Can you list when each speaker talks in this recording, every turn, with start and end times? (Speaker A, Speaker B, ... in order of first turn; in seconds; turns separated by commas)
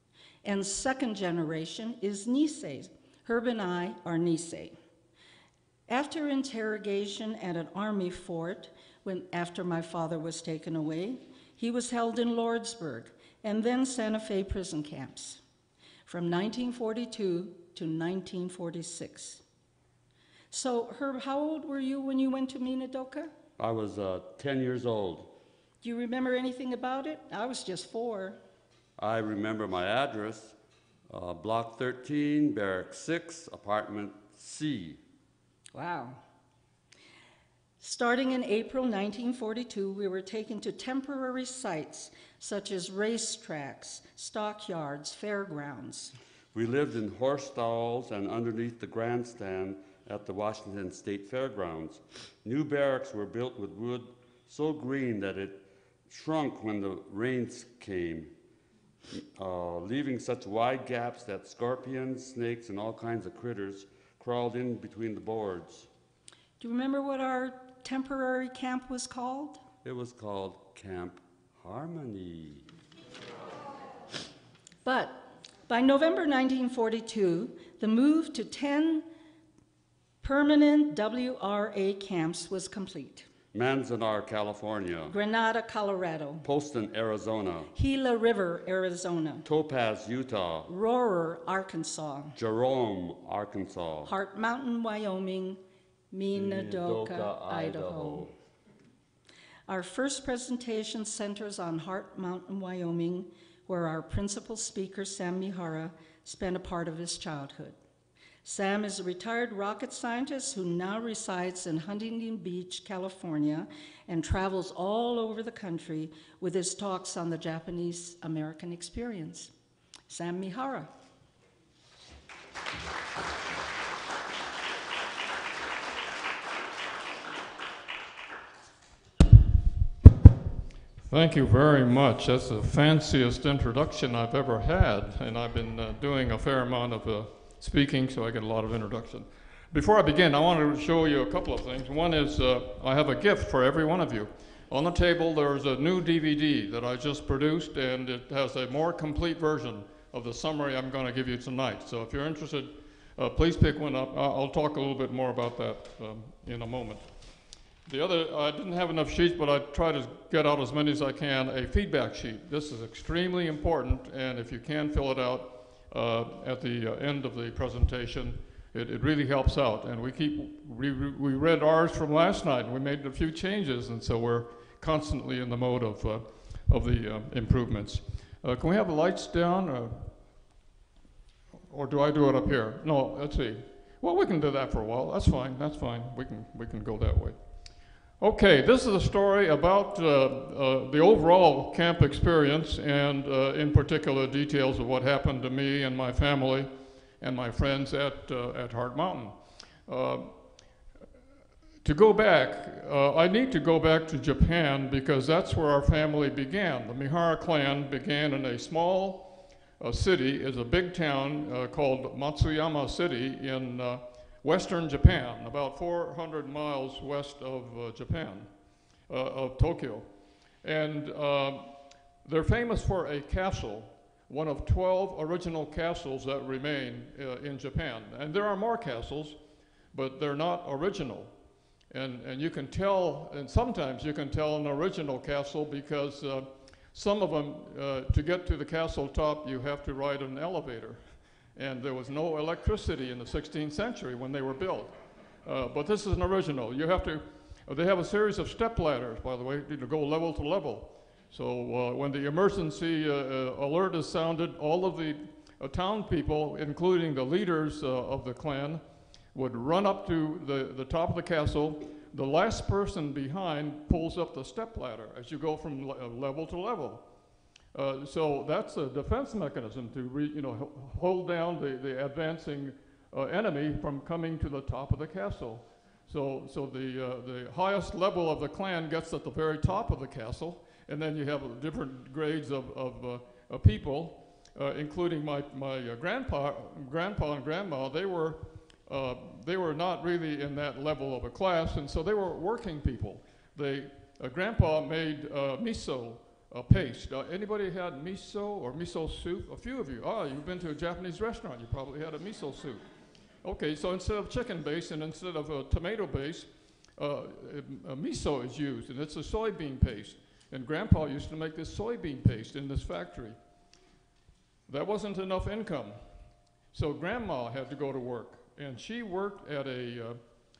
Speaker A: 0.4-4.8, Speaker A: 5.9-15.4, Speaker A: 16.1-19.4, Speaker A: 20.5-23.3, Speaker B: 23.6-25.3, Speaker A: 25.8-28.4, Speaker B: 29.0-30.6, Speaker B: 31.1-35.0, Speaker A: 35.7-36.2, Speaker A: 37.8-46.1, Speaker B: 46.5-58.3, Speaker B: 59.4-65.9, Speaker A: 66.6-69.6, Speaker B: 69.8-72.7, Speaker A: 74.8-79.1, Speaker A: 80.2-83.3, Speaker B: 83.5-85.1, Speaker A: 85.1-86.5, Speaker B: 86.4-87.7, Speaker A: 87.7-89.5, Speaker B: 89.5-90.7, Speaker A: 90.7-92.3, Speaker B: 92.3-94.1, Speaker A: 94.1-95.6, Speaker A: 96.1-98.3, Speaker B: 96.3-98.3, Speaker A: 99.7-107.8, Speaker A: 108.4-119.5, Speaker A: 120.1-120.9, Speaker C: 131.1-157.1, Speaker C: 157.9-180.1, Speaker C: 181.7-187.4, Speaker C: 188.2-196.7, Speaker C: 197.2-199.4, Speaker C: 199.9-200.3, Speaker C: 201.8-218.5, Speaker C: 219.1-220.1, Speaker C: 220.6-221.7, Speaker C: 222.2-229.4, Speaker C: 229.9-231.3, Speaker C: 231.9-241.0, Speaker C: 241.6-258.8, Speaker C: 259.3-267.0, Speaker C: 267.7-302.8, Speaker C: 303.4-313.4, Speaker C: 314.7-316.0, Speaker C: 316.7-320.2